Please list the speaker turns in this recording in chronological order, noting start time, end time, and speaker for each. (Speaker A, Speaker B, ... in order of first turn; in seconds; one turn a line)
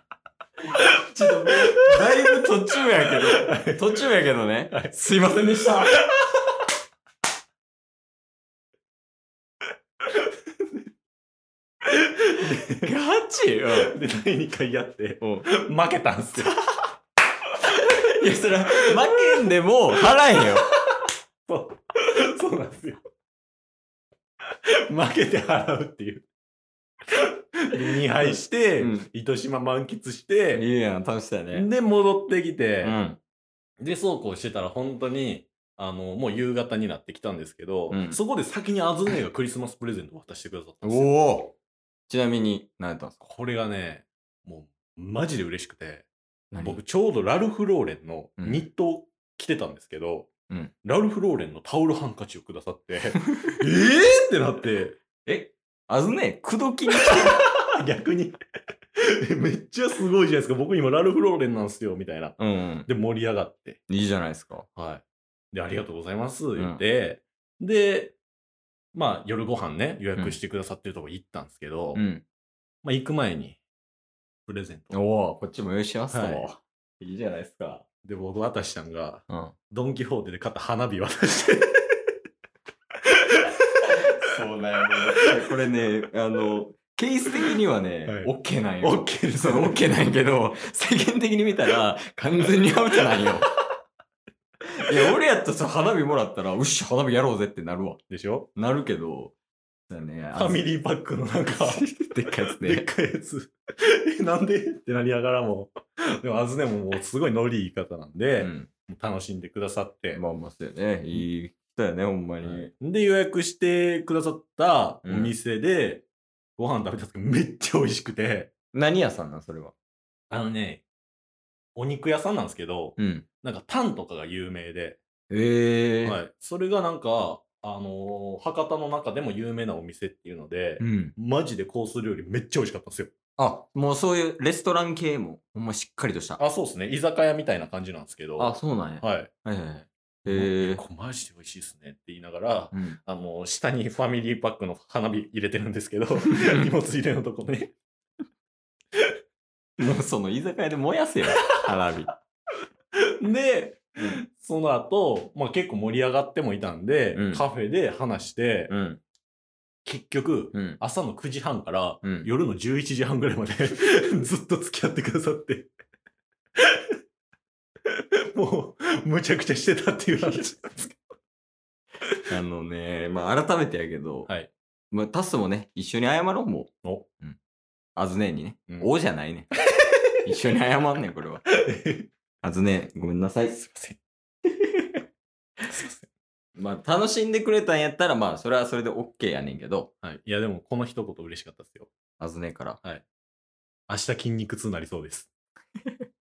Speaker A: 1.0-6.0
Speaker B: 3.1-3.9
Speaker B: 5.9-6.2
Speaker B: 11.9-12.9
Speaker A: 12.8-13.9
Speaker B: 13.7-16.6
Speaker A: 15.2-15.5
Speaker A: 18.0-20.7
Speaker B: 20.1-20.7
Speaker B: 21.5-23.0
Speaker B: 24.9-26.3
Speaker B: 27.6-30.7
Speaker A: 28.3-29.1
Speaker A: 30.5-31.7
Speaker B: 31.5-33.0
Speaker A: 32.8-33.2
Speaker B: 33.8-41.1
Speaker A: 37.9-38.2
Speaker A: 40.8-41.5
Speaker A: 42.1-43.1
Speaker B: 43.2-46.1
Speaker A: 46.5-46.8
Speaker B: 46.6-50.3
Speaker A: 48.4-48.6
Speaker B: 50.8-55.0
Speaker A: 55.2-57.3
Speaker B: 57.1-58.4
Speaker B: 59.0-62.4
Speaker A: 62.4-62.9
Speaker B: 62.9-63.8
Speaker A: 63.9-64.7
Speaker B: 64.8-68.2
Speaker A: 66.6-66.8
Speaker B: 68.9-72.0
Speaker A: 72.0-72.2
Speaker B: 72.8-73.6
Speaker B: 74.5-75.0
Speaker A: 74.9-77.8
Speaker B: 76.1-76.5
Speaker B: 78.0-82.0
Speaker A: 79.3-79.5
Speaker A: 83.9-93.5
Speaker B: 88.0-89.8
Speaker A: 94.8-98.0
Speaker B: 98.1-98.5
Speaker A: 98.6-99.3
Speaker A: 99.9-100.7
Speaker B: 100.3-101.9
Speaker A: 101.6-102.9
Speaker B: 102.5-110.2
Speaker A: 108.4-108.7
Speaker A: 110.1-112.7
Speaker B: 112.4-116.1
Speaker A: 115.0-115.3
Speaker B: 116.6-118.5
Speaker A: 118.7-119.7
Speaker B: 120.3-120.8
Speaker B: 121.8-125.0
Speaker A: 123.0-123.2
Speaker A: 125.3-126.2
Speaker B: 126.0-133.1
Speaker A: 130.8-131.2
Speaker A: 133.4-136.4
Speaker B: 136.4-139.3
Speaker A: 138.4-140.8
Speaker B: 140.3-147.7
Speaker A: 142.7-143.0
Speaker A: 149.8-152.1
Speaker B: 151.3-151.7
Speaker B: 153.2-158.7
Speaker A: 157.2-157.4
Speaker A: 158.7-159.0
Speaker B: 159.8-165.7
Speaker A: 160.5-160.8
Speaker A: 162.0-162.3
Speaker B: 168.3-171.0
Speaker A: 170.2-170.5
Speaker A: 172.3-174.3
Speaker A: 174.9-177.4
Speaker A: 178.0-179.5
Speaker A: 180.2-181.4
Speaker B: 181.5-182.1
Speaker A: 182.4-183.6
Speaker B: 183.5-184.0
Speaker B: 185.6-186.1
Speaker A: 186.6-189.9
Speaker B: 190.0-191.9
Speaker A: 192.2-192.8
Speaker B: 193.9-195.3